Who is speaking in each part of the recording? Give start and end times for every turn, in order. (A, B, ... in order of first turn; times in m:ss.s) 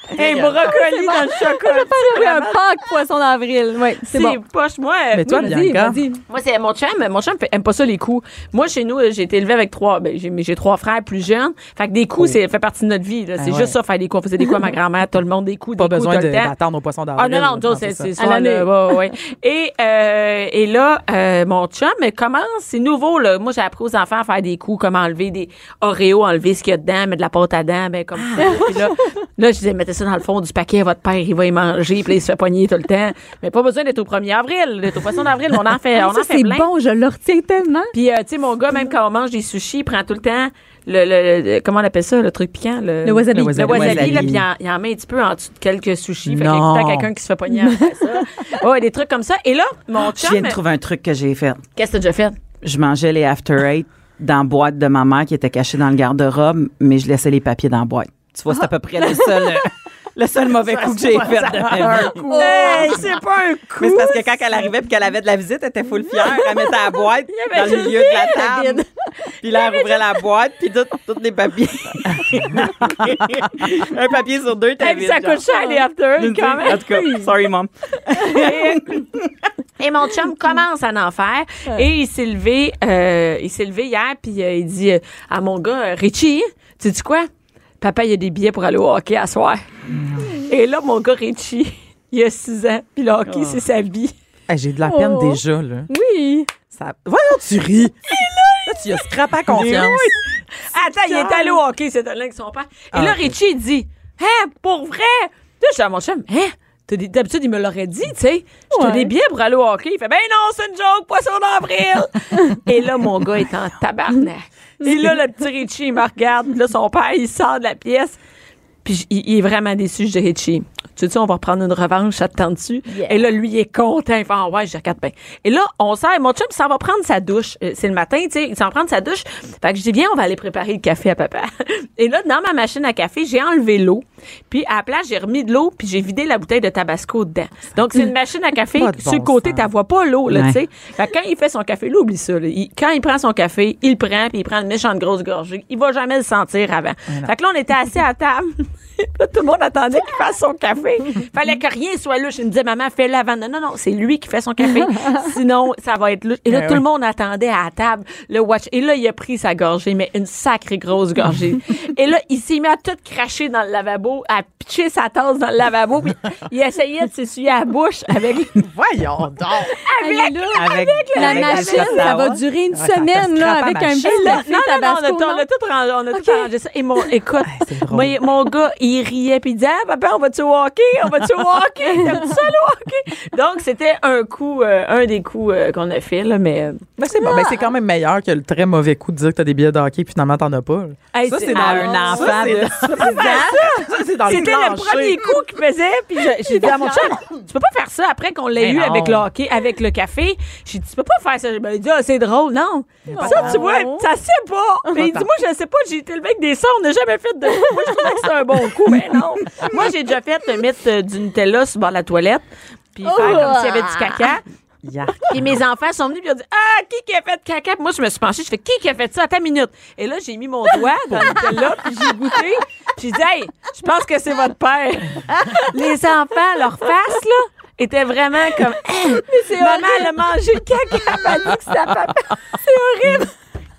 0:00.1-0:02.6 A
0:00.1-0:00.7 B
0:00.7-0:04.4 C
0:04.0-0:05.6 A
0:05.1-0:06.0 B
0:05.2-0:06.2 C
0:06.3-0:16.6 A
0:13.4-0:13.8 B
0:15.8-0:18.1 B
0:17.2-0:36.7 A
0:18.2-0:19.1 C
0:28.4-0:29.0 C
0:36.0-0:37.9 C
0:37.9-0:50.6 A
0:43.0-0:44.2 C
0:43.3-0:44.4 B
0:43.7-0:44.3 D
0:46.3-0:47.1 B
0:47.5-0:48.0 C
0:50.2-0:51.6 D
0:51.8-0:52.4 A
0:52.6-1:02.8 D
1:00.6-1:02.6 B
1:02.2-1:03.1 C
1:02.3-1:04.4 A
1:03.8-1:08.9 D
1:07.3-1:08.7 A
1:08.3-1:08.8 C
1:09.4-1:15.5 D
1:14.8-1:17.2 A
1:16.2-1:19.4 D
1:16.8-1:17.3 C
1:18.2-1:19.0 A
1:19.8-1:27.3 A
1:27.8-1:29.7 A
1:30.4-1:34.1 A
1:33.3-1:33.6 D
1:34.5-1:35.9 B
1:34.8-1:36.5 C
1:36.7-1:38.0 B
1:38.1-1:40.1 A
1:38.7-1:40.2 B
1:39.6-1:39.8 D
1:40.6-1:58.2 A
1:42.9-1:43.3 B
1:48.7-1:49.1 C
1:58.8-2:48.6 A
2:02.9-2:03.2 C
2:18.8-2:19.7 B
2:20.3-2:20.6 D
2:36.5-2:36.8 B
2:48.6-2:49.8 B
2:49.8-2:52.1 A
2:50.0-2:55.5 C
2:50.6-2:52.4 D
2:52.7-2:54.4 B
2:54.2-3:06.9 A
2:56.1-2:56.5 C
2:57.4-2:58.2 B
3:07.0-3:15.4 B
3:07.2-3:07.7 C
3:11.1-3:34.4 A
3:11.5-3:13.1 D
3:16.4-3:17.1 B
3:18.6-3:19.3 B
3:23.1-3:23.7 B
3:23.1-3:24.0 C
3:24.9-3:25.3 B
3:27.6-3:28.0 C
3:33.0-3:34.2 C
3:34.8-3:35.4 B
3:35.3-3:53.3 A
3:41.1-3:41.5 B
3:49.3-3:50.2 C